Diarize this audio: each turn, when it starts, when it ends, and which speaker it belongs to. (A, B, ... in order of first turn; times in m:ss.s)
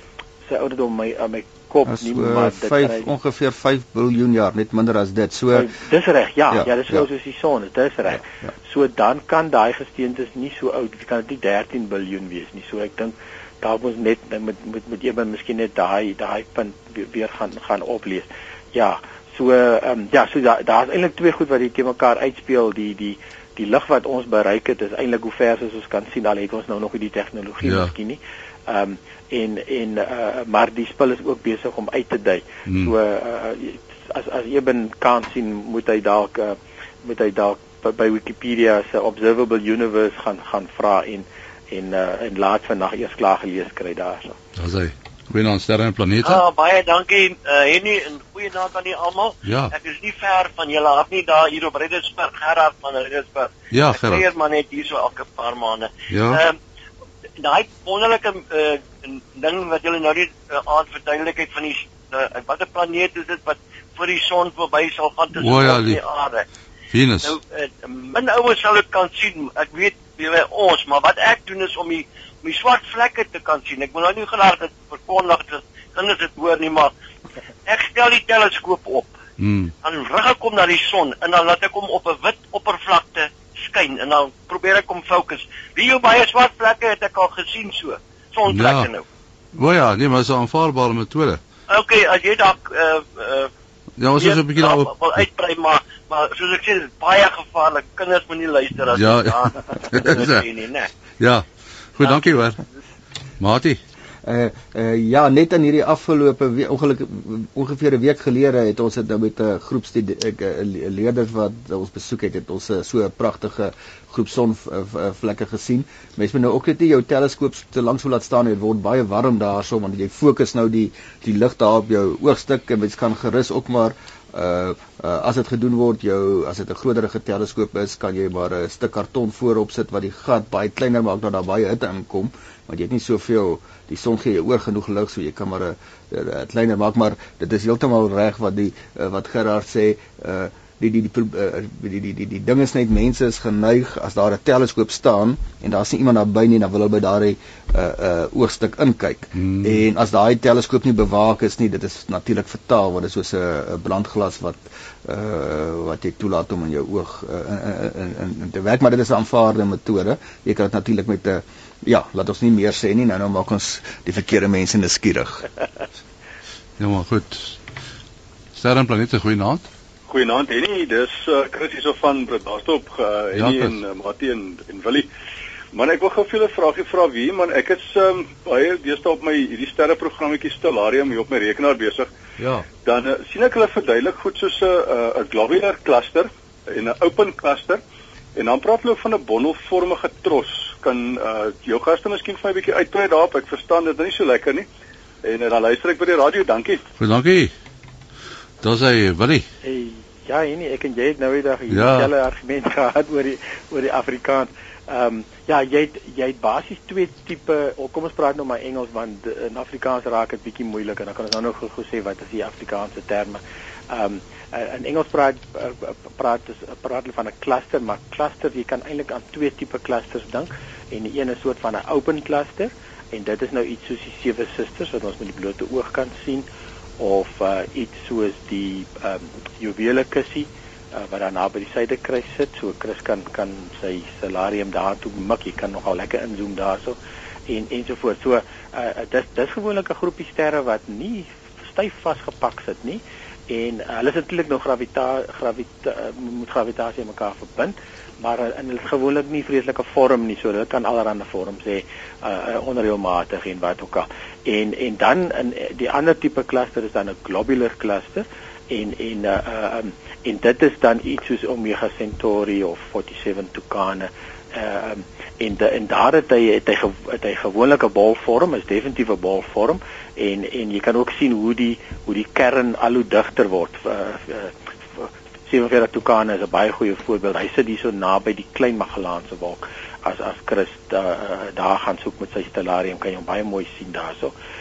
0:00.5-0:03.1 A
0:01.9-0:05.7 B
0:05.5-0:44.4 A
0:06.5-0:07.1 B
0:27.6-0:27.9 C
0:32.7-0:32.9 C
0:44.6-0:46.4 C
0:46.2-0:56.6 D
0:49.4-0:49.7 C
0:53.7-0:54.2 C
0:56.1-0:56.4 C
0:57.4-1:06.4 D
1:05.4-1:06.0 C
1:06.9-1:07.4 C
1:07.2-1:16.9 D
1:17.6-1:19.1 D
1:19.4-1:19.7 C
1:19.8-1:29.0 D
1:28.5-1:28.9 C
1:29.5-1:31.4 C
1:31.7-1:33.5 D
1:34.0-1:34.9 C
1:34.2-1:40.9 D
1:38.8-1:40.4 C
1:41.2-1:42.6 C
1:42.0-1:42.4 D
1:43.4-1:43.8 C
1:44.2-2:45.4 B
2:29.4-2:29.8 C
2:46.8-2:47.6 C
2:48.6-2:49.7 C
2:50.1-2:55.1 E
2:53.4-2:53.8 C
2:55.7-3:02.1 E
3:02.4-3:02.7 C
3:02.8-3:07.8 E
3:08.4-3:14.7 E
3:15.2-3:16.8 E
3:17.0-3:17.5 C
3:18.6-3:19.4 C
3:19.6-3:46.5 A
3:21.7-3:22.1 C
3:47.0-3:57.0 A
3:57.5-4:44.3 A